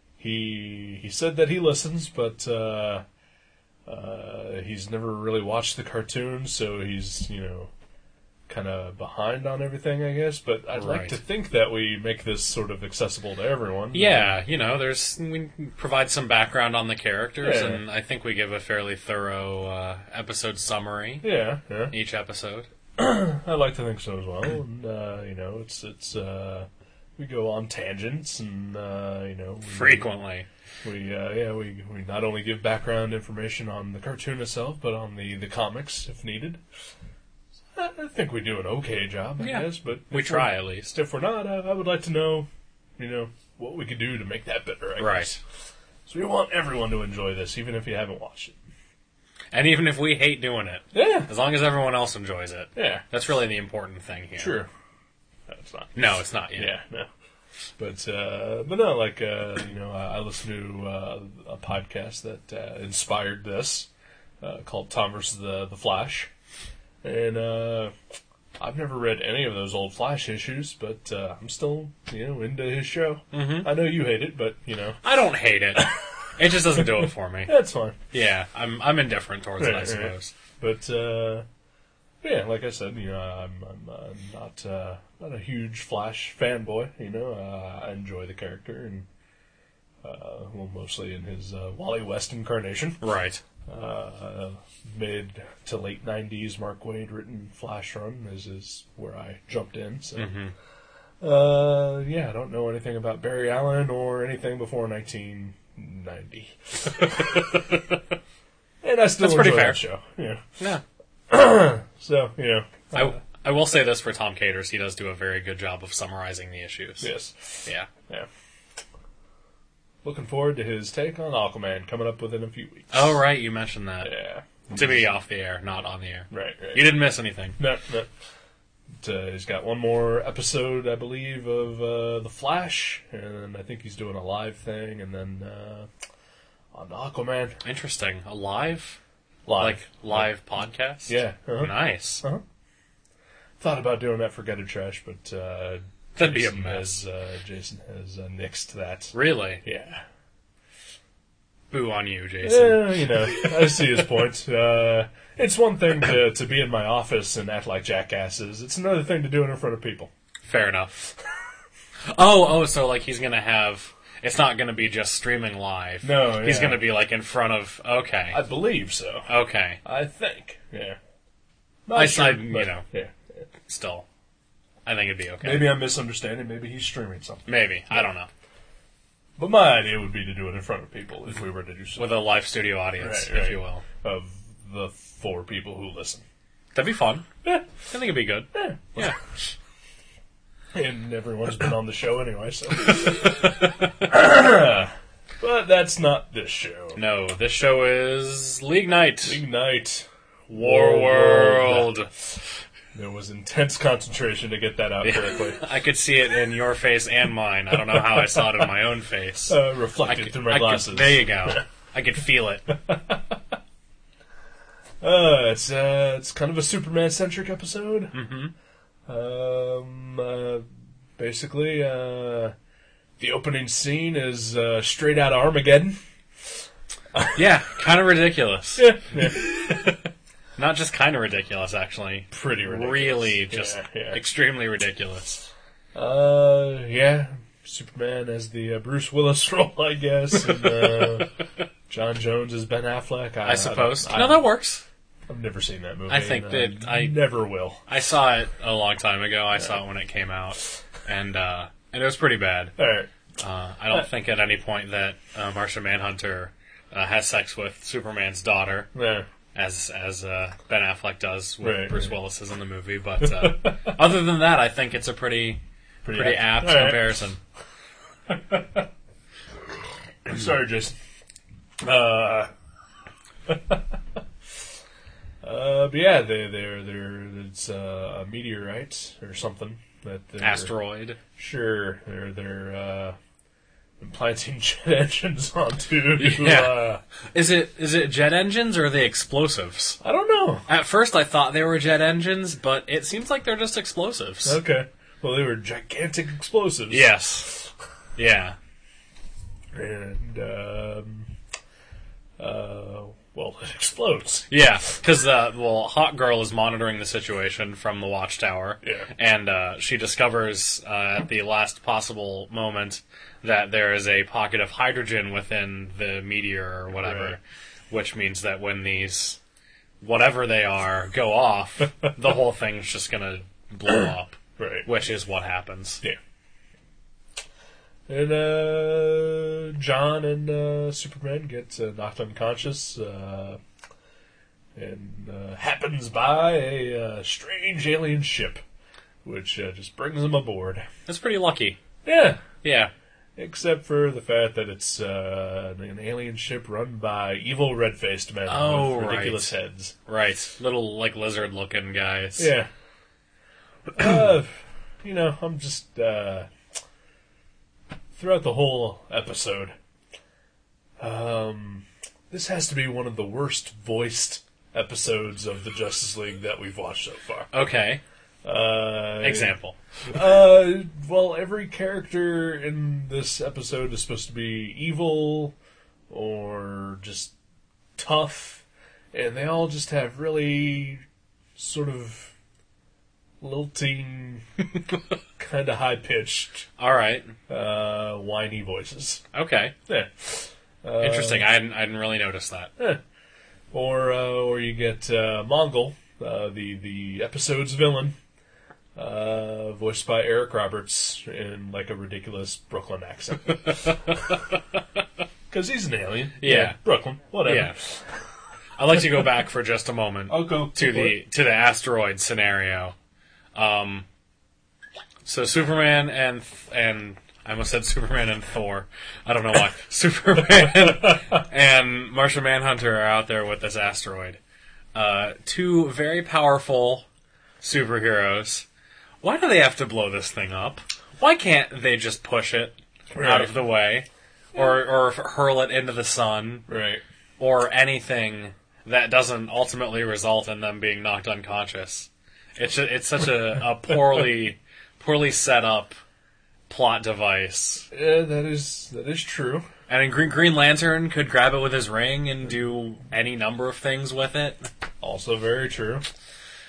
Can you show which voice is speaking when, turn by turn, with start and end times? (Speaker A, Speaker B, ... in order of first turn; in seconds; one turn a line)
Speaker A: 0.2-3.0
Speaker A: 3.9-7.7
Speaker A: 8.5-14.4
Speaker B: 10.7-11.2
Speaker B: 13.9-21.3
Speaker A: 17.4-17.8
Speaker A: 21.2-21.9
Speaker B: 21.9-22.7
Speaker A: 23.0-30.1
Speaker B: 29.7-30.5
Speaker A: 30.8-36.6
Speaker A: 37.7-45.4
Speaker B: 39.4-40.9
Speaker B: 45.0-45.3
Speaker A: 46.0-48.6
Speaker B: 49.5-54.6
Speaker A: 50.9-51.3
Speaker A: 52.7-53.0
Speaker A: 54.4-54.7
Speaker A: 55.5-56.0
Speaker B: 55.9-56.7
Speaker A: 56.5-57.1
Speaker A: 57.8-63.9
Speaker A: 64.4-66.3
Speaker A: 67.0-67.9
Speaker A: 68.6-75.0
Speaker B: 73.3-73.7
Speaker B: 75.0-77.5
Speaker A: 76.8-78.0
Speaker B: 78.1-80.3
Speaker A: 79.6-81.4
Speaker A: 82.2-89.1
Speaker A: 90.0-93.0
Speaker B: 93.0-93.4
Speaker A: 93.7-100.3
Speaker B: 100.2-100.5
Speaker A: 101.2-107.8
Speaker A: 108.8-110.4
Speaker B: 109.2-109.8
Speaker A: 111.3-113.2
Speaker B: 112.9-117.1
Speaker A: 117.0-118.3
Speaker A: 120.0-123.2
Speaker B: 122.9-124.1
Speaker A: 124.0-125.0
Speaker B: 124.7-127.6
Speaker A: 126.3-126.9
Speaker A: 127.6-128.1
Speaker A: 129.0-135.9
Speaker A: 136.7-137.6
Speaker B: 137.6-139.0
Speaker A: 139.4-140.3
Speaker B: 139.6-142.2
Speaker A: 141.1-142.4
Speaker A: 143.6-150.0
Speaker B: 146.2-146.9
Speaker B: 149.1-149.6
Speaker B: 151.7-153.8
Speaker A: 152.4-160.1
Speaker B: 160.4-161.1
Speaker B: 162.1-168.4
Speaker A: 166.0-166.8
Speaker A: 168.3-169.3
Speaker B: 169.3-169.8
Speaker A: 169.8-171.0
Speaker A: 171.8-173.1
Speaker B: 171.9-172.8
Speaker B: 173.7-174.1
Speaker B: 174.8-175.7
Speaker A: 175.4-178.1
Speaker B: 177.5-178.3
Speaker A: 179.4-182.1
Speaker B: 181.9-183.8
Speaker A: 183.0-186.2
Speaker B: 186.7-187.3
Speaker B: 187.9-189.5
Speaker A: 188.5-189.1
Speaker A: 190.7-197.0
Speaker B: 196.9-199.4
Speaker A: 199.2-202.0
Speaker B: 200.5-202.1
Speaker A: 202.9-205.6
Speaker B: 205.0-212.7
Speaker A: 209.5-211.6
Speaker A: 212.7-213.5
Speaker A: 215.0-218.1
Speaker B: 218.1-218.5
Speaker A: 219.1-222.5
Speaker A: 223.2-226.0
Speaker B: 227.3-229.8
Speaker A: 228.8-229.4
Speaker B: 230.6-235.5
Speaker A: 232.3-234.2
Speaker A: 235.9-241.3
Speaker A: 241.9-244.4
Speaker B: 243.4-244.8
Speaker A: 245.3-247.8
Speaker B: 246.1-247.2
Speaker B: 247.9-252.7
Speaker A: 252.8-253.1
Speaker B: 253.4-258.9
Speaker A: 258.9-259.3
Speaker B: 259.5-265.6
Speaker A: 261.6-262.1
Speaker A: 263.2-264.0
Speaker A: 266.0-267.0
Speaker B: 266.1-267.4
Speaker A: 268.3-268.9
Speaker A: 270.2-271.0
Speaker A: 271.8-272.5
Speaker A: 273.5-273.9
Speaker A: 275.4-280.7
Speaker B: 280.4-281.2
Speaker A: 281.4-283.2
Speaker A: 284.0-287.0
Speaker B: 286.2-290.0
Speaker A: 290.0-290.6
Speaker B: 290.7-294.6
Speaker A: 294.4-297.6
Speaker B: 296.9-297.6
Speaker B: 298.2-298.6
Speaker A: 299.7-301.3
Speaker A: 302.4-304.5
Speaker B: 304.5-319.4
Speaker A: 308.8-309.1
Speaker A: 316.9-317.4
Speaker B: 320.0-326.0
Speaker A: 324.6-324.9
Speaker A: 328.1-333.6
Speaker A: 334.8-338.6
Speaker A: 339.2-340.9
Speaker B: 341.1-341.8
Speaker A: 342.0-342.4
Speaker B: 342.6-342.9
Speaker A: 343.4-349.9
Speaker B: 348.5-349.5
Speaker B: 350.1-352.5
Speaker A: 352.4-352.7
Speaker A: 353.9-356.5
Speaker A: 358.1-359.7
Speaker A: 361.0-367.5
Speaker B: 367.5-368.0
Speaker A: 368.4-369.5
Speaker B: 369.2-369.8
Speaker A: 370.1-375.5
Speaker A: 376.1-377.3
Speaker A: 377.9-381.0
Speaker A: 381.6-382.3
Speaker A: 383.4-384.4
Speaker A: 385.4-386.6
Speaker B: 386.8-387.3
Speaker A: 387.5-389.2
Speaker B: 389.3-389.7
Speaker A: 389.9-391.5
Speaker B: 391.0-392.7
Speaker A: 393.7-398.1
Speaker A: 398.9-404.1
Speaker A: 405.5-408.0
Speaker B: 406.4-406.8
Speaker B: 407.4-407.8
Speaker B: 408.8-412.9
Speaker A: 410.3-411.2
Speaker B: 413.5-414.1
Speaker B: 415.2-424.4
Speaker B: 424.9-427.0
Speaker B: 427.6-428.6
Speaker B: 429.2-436.7
Speaker A: 433.1-433.5
Speaker A: 436.7-437.0
Speaker B: 437.4-446.0
Speaker B: 446.7-447.9
Speaker A: 447.9-449.7
Speaker B: 449.9-454.7
Speaker A: 455.0-456.0